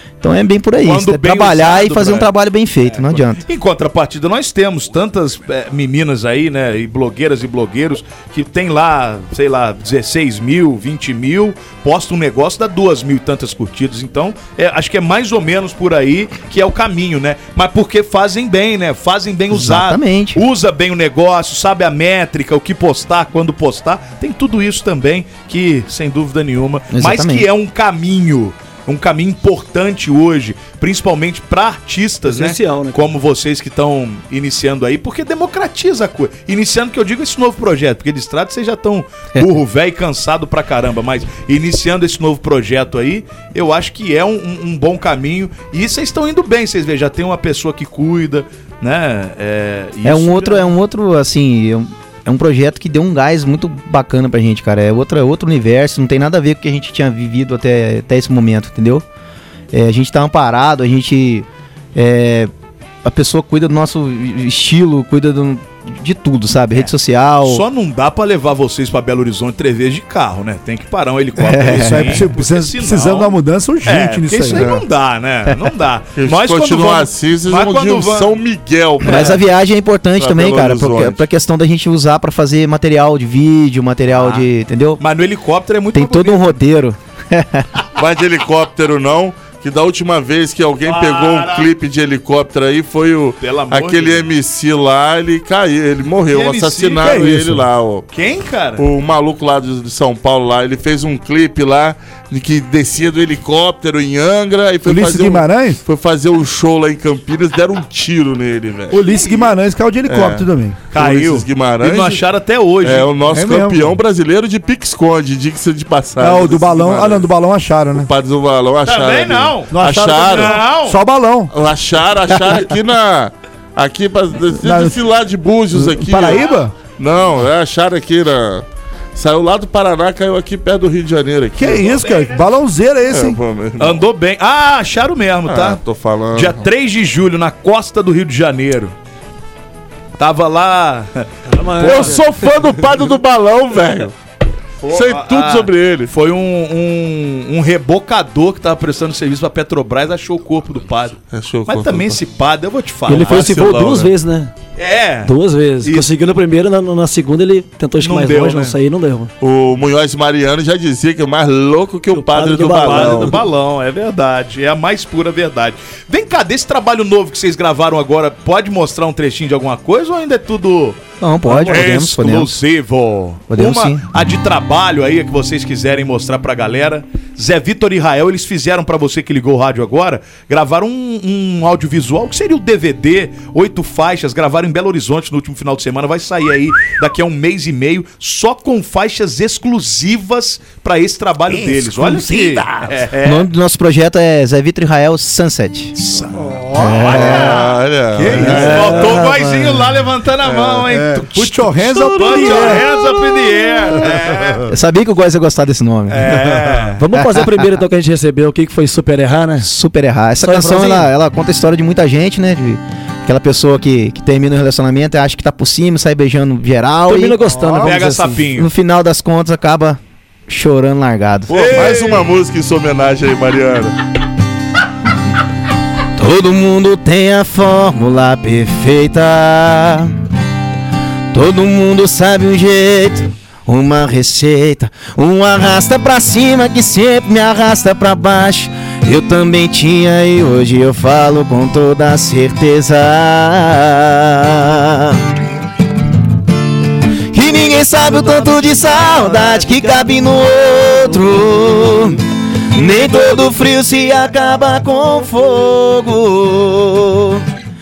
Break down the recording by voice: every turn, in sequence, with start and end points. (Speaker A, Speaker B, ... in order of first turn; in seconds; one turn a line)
Speaker A: 0.2-3.4
Speaker B: 0.8-2.3
Speaker B: 2.8-50.7
Speaker A: 19.5-20.4
Speaker A: 26.9-27.5
Speaker C: 32.2-33.0
Speaker A: 50.0-59.0
Speaker A: 59.7-62.5
Speaker A: 63.0-67.6
Speaker B: 67.4-78.4
Speaker A: 71.4-72.2
Speaker D: 71.7-74.7
Speaker E: 74.5-74.8
Speaker E: 76.2-79.5
Speaker B: 79.0-79.4
Speaker A: 79.0-85.0
Speaker E: 80.2-81.2
Speaker B: 84.1-84.5
Speaker B: 85.0-86.6
Speaker A: 85.9-87.7
Speaker E: 88.0-98.0
Speaker B: 90.8-91.7
Speaker B: 93.4-94.3
Speaker B: 96.3-97.3
Speaker D: 97.0-97.6
Speaker B: 98.1-98.8
Speaker E: 98.8-109.0
Speaker D: 104.8-105.8
Speaker D: 108.9-110.8
Speaker B: 109.1-109.5
Speaker E: 110.1-112.2
Speaker B: 110.9-113.1
Speaker E: 112.8-117.2
Speaker D: 113.3-114.0
Speaker D: 116.2-118.1
Speaker E: 117.9-120.6
Speaker B: 118.8-121.0
Speaker D: 119.7-121.5
Speaker E: 121.5-126.5
Speaker D: 124.5-125.0
Speaker D: 125.7-126.7
Speaker E: 127.0-131.9
Speaker D: 131.5-133.4
Speaker B: 131.6-132.4
Speaker E: 133.1-134.0
Speaker B: 133.8-135.8
Speaker E: 135.5-136.6
Speaker B: 136.3-138.9
Speaker B: 140.2-142.2
Speaker C: 141.4-142.6
Speaker E: 141.8-144.1
Speaker B: 144.8-153.5
Speaker E: 144.8-146.1
Speaker E: 151.3-152.2
Speaker C: 153.1-154.5
Speaker E: 153.1-154.1
Speaker B: 154.8-156.1
Speaker C: 155.2-159.3
Speaker B: 158.0-158.7
Speaker E: 159.4-163.4
Speaker C: 162.1-163.4
Speaker B: 162.7-193.5
Speaker A: 171.2-172.6
Speaker A: 173.5-174.0
Speaker D: 191.5-193.0
Speaker A: 193.2-195.9
Speaker B: 195.9-204.7
Speaker D: 196.4-197.2
Speaker A: 196.8-197.6
Speaker E: 197.1-199.2
Speaker D: 198.2-198.9
Speaker C: 198.3-199.8
Speaker D: 200.8-203.2
Speaker C: 202.4-202.8
Speaker D: 203.9-204.5
Speaker A: 204.7-206.3
Speaker B: 206.1-207.0
Speaker D: 206.5-206.9
Speaker C: 207.0-209.7
Speaker A: 207.1-207.7
Speaker A: 209.6-217.5
Speaker C: 210.4-211.1
Speaker C: 217.1-218.5
Speaker D: 217.4-217.9
Speaker B: 217.8-218.7
Speaker A: 218.5-221.7
Speaker E: 221.5-223.9
Speaker B: 221.5-222.2
Speaker A: 226.2-230.2
Speaker A: 231.3-245.2
Speaker A: 247.3-257.4
Speaker C: 248.0-251.3